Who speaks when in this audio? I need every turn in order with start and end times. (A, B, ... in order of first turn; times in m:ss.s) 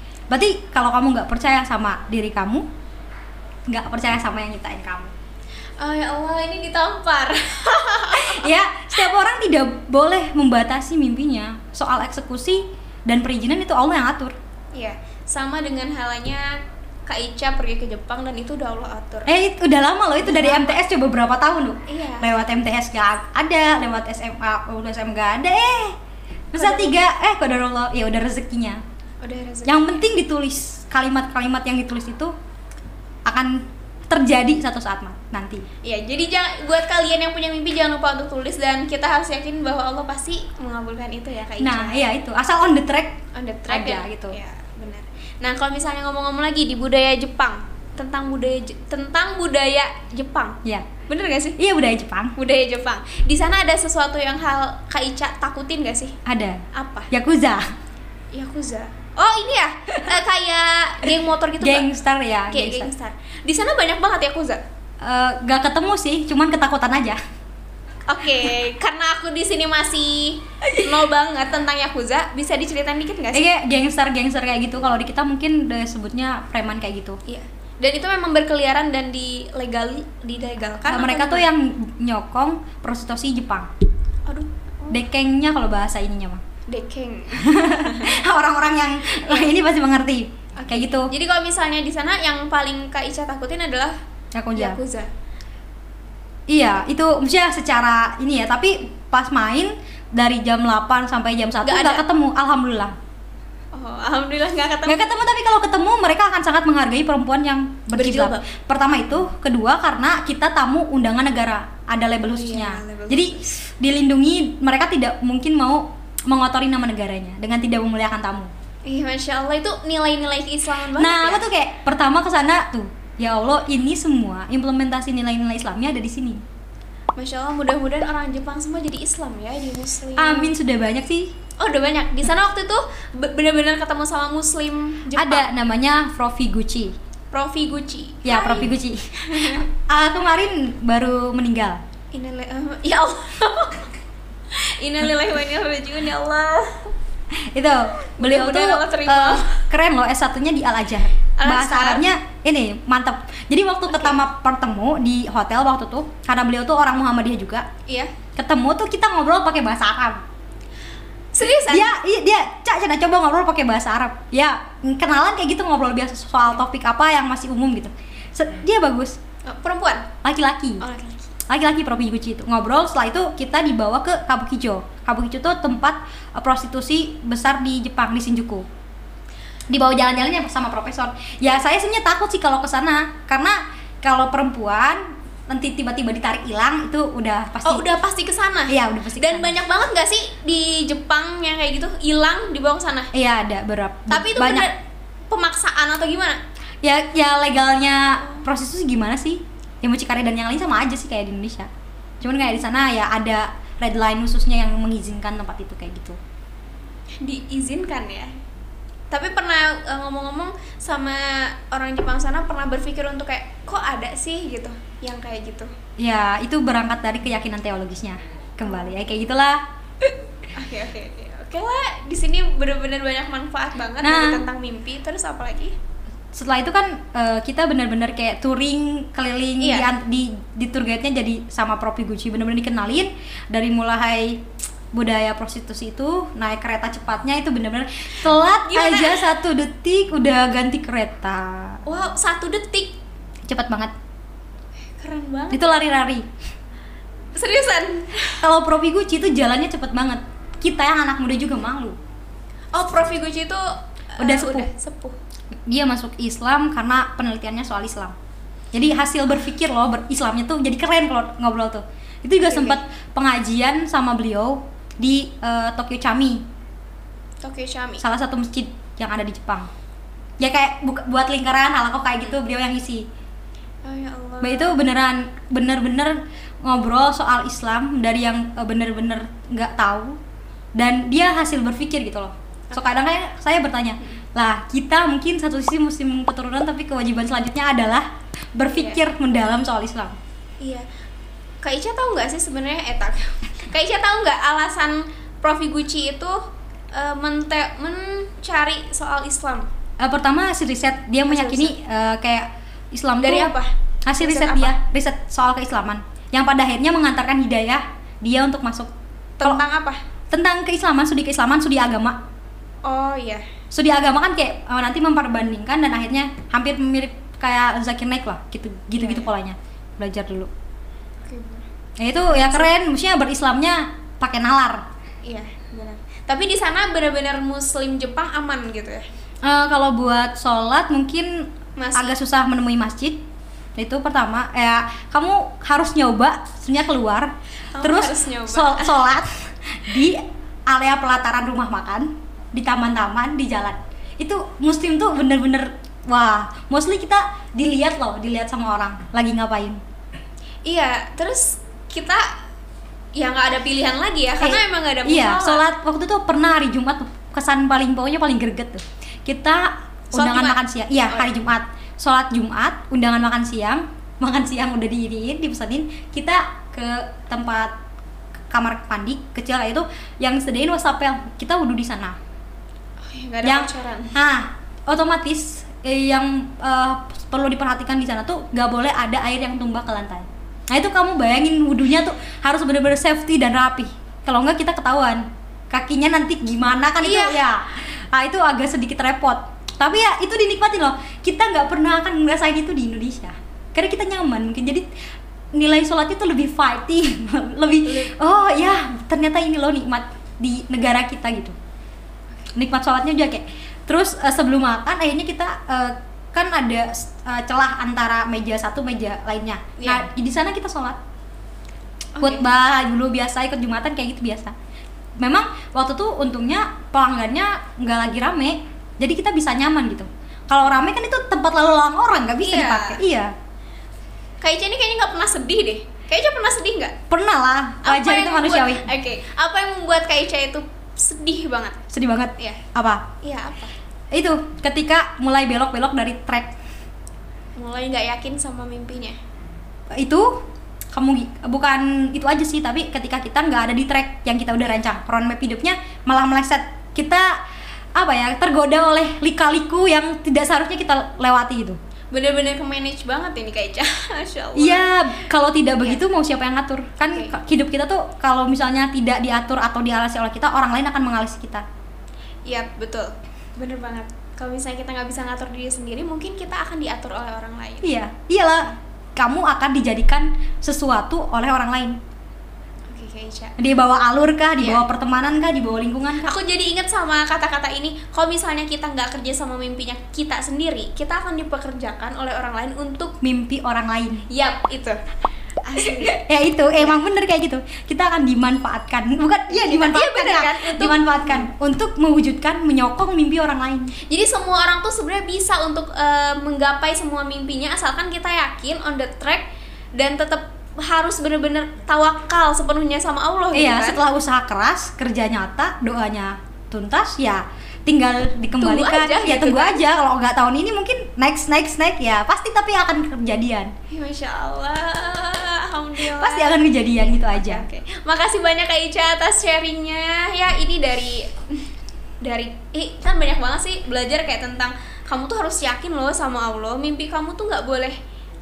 0:00.3-0:02.7 A
0:03.7-0:05.1 A
0:05.8-0:08.5 B
0:08.1-0:14.4 A
0:14.8-0:16.6 B
0:17.1-0:19.3 B
0:19.3-0:26.0 A
0:20.2-0:20.8 B
0:21.9-0:22.3 B
0:26.5-0:28.8 A
0:26.6-0:27.0 B
0:29.2-0:30.0 B
0:29.7-0:32.3 A
0:33.2-0:33.5 A
0:34.1-0:35.6 A
0:35.8-0:42.1 B
0:41.6-0:43.2 A
0:43.3-0:51.6 B
0:43.7-0:44.4 A
0:51.6-0:52.3 A
0:52.4-0:56.2 B
0:56.3-0:56.6 A
0:56.7-0:57.1 B
0:57.1-0:57.6 A
0:58.3-1:01.9 B
1:01.6-1:02.9 A
1:02.5-1:04.6 B
1:05.0-1:07.2 A
1:08.1-1:13.4 B
1:13.3-1:17.2 A
1:17.3-1:21.5 B
1:20.9-1:23.7 A
1:24.3-1:25.0 B
1:24.9-1:26.4 A
1:26.7-1:28.1 B
1:27.5-1:31.1 A
1:29.2-1:29.5 B
1:30.6-1:34.0 B
1:34.4-1:34.8 A
1:34.6-1:35.1 B
1:36.5-1:42.9 A
1:41.6-1:42.0 B
1:43.7-1:45.1 B
1:44.9-1:58.5 A
1:47.9-1:48.5 B
1:52.3-1:53.6 B
1:58.9-2:01.5 B
2:01.0-2:06.4 A
2:07.2-2:10.5 B
2:10.2-2:11.3 A
2:11.6-2:15.5 B
2:15.2-2:16.9 A
2:17.3-2:19.7 B
2:18.2-2:21.8 A
2:22.1-2:23.9 B
2:24.5-2:26.9 B
2:27.5-2:37.7 A
2:28.2-2:29.6 B
2:31.4-2:32.1 B
2:33.9-2:34.2 B
2:37.9-2:38.1 B
2:38.4-2:40.2 A
2:41.3-2:42.0 B
2:41.4-2:49.2 A
2:49.5-2:50.1 B
2:50.2-2:50.8 A
2:50.8-2:51.3 B
2:51.5-2:58.7 A
2:59.7-3:07.8 A
3:07.6-3:13.1 B
3:08.7-3:09.6 A
3:13.1-3:14.7 A
3:14.1-3:14.8 B
3:15.3-3:16.4 B
3:16.8-3:21.7 A
3:22.2-3:26.2 A
3:27.2-3:28.3 B
3:29.1-3:35.7 B
3:36.0-3:39.6 A
3:40.6-3:45.7 B
3:44.0-3:44.4 A
3:46.3-4:01.8 A
3:49.6-3:49.9 B
3:58.6-3:59.3 B
4:01.9-4:03.0 B
4:03.5-4:03.9 A
4:05.0-4:05.8 B
4:05.5-4:06.3 A
4:07.4-4:08.4 B
4:08.4-4:12.0 A
4:12.7-4:13.6 B
4:14.2-4:15.2 B
4:14.2-4:14.7 A
4:15.7-4:18.1 A
4:18.7-4:26.4 A
4:22.4-4:22.8 B
4:27.4-4:28.0 B
4:28.0-4:29.7 A
4:30.4-4:33.0 A
4:33.8-4:34.8 B
4:34.4-4:40.2 A
4:40.8-4:50.2 A
4:48.7-4:49.0 B
4:50.6-4:50.9 B
4:51.6-4:59.7 B
5:00.0-5:03.5 A
5:01.3-5:01.7 B
5:03.2-5:04.8 B
5:04.1-5:08.9 A
5:09.4-5:10.0 B
5:10.3-5:12.2 A
5:12.8-5:13.4 B
5:13.7-5:20.5 A
5:19.0-5:19.3 B
5:21.2-5:21.7 B
5:22.0-5:24.8 A
5:22.3-5:22.7 B
5:25.2-5:29.0 B
5:29.4-5:33.2 A
5:31.8-5:32.2 B
5:33.8-5:49.8 A
5:37.7-5:39.0 B
5:50.6-5:52.3 B
5:53.2-5:55.6 B
5:54.4-6:07.7 A
6:00.2-6:01.3 B
6:08.5-6:12.2 A
6:13.0-6:14.1 B
6:13.4-6:34.9 A
6:27.0-6:27.4 B
6:35.6-6:41.6 A
6:37.8-6:38.3 B
6:42.6-6:51.0 A
6:49.8-6:50.0 B
6:52.2-6:52.5 B
6:52.2-6:54.5 A
6:55.2-7:03.3 A
7:02.4-7:03.0 B
7:04.4-7:07.0 B
7:07.1-7:08.9 A
7:07.8-7:11.8 B
7:11.9-7:13.0 A
7:13.2-7:13.7 B
7:14.1-7:16.5 A
7:17.6-7:19.2 B
7:19.9-7:27.3 A
7:28.0-7:31.8 A
7:32.1-7:34.9 B
7:34.6-7:41.6 A
7:37.0-7:37.4 B
7:42.5-7:48.0 B
7:47.8-7:52.0 A
7:52.9-7:53.6 B
7:53.6-7:56.3 A
7:54.6-7:54.8 B
7:56.2-8:03.2 B
8:03.2-8:04.2 A
8:04.3-8:05.0 B
8:05.6-8:06.2 B
8:06.0-8:13.9 A
8:09.5-8:11.5 B
8:14.1-8:24.0 B
8:23.5-8:33.7 A
8:28.6-8:29.8 B
8:33.9-8:41.7 B
8:36.1-8:37.6 A
8:42.2-8:48.0 B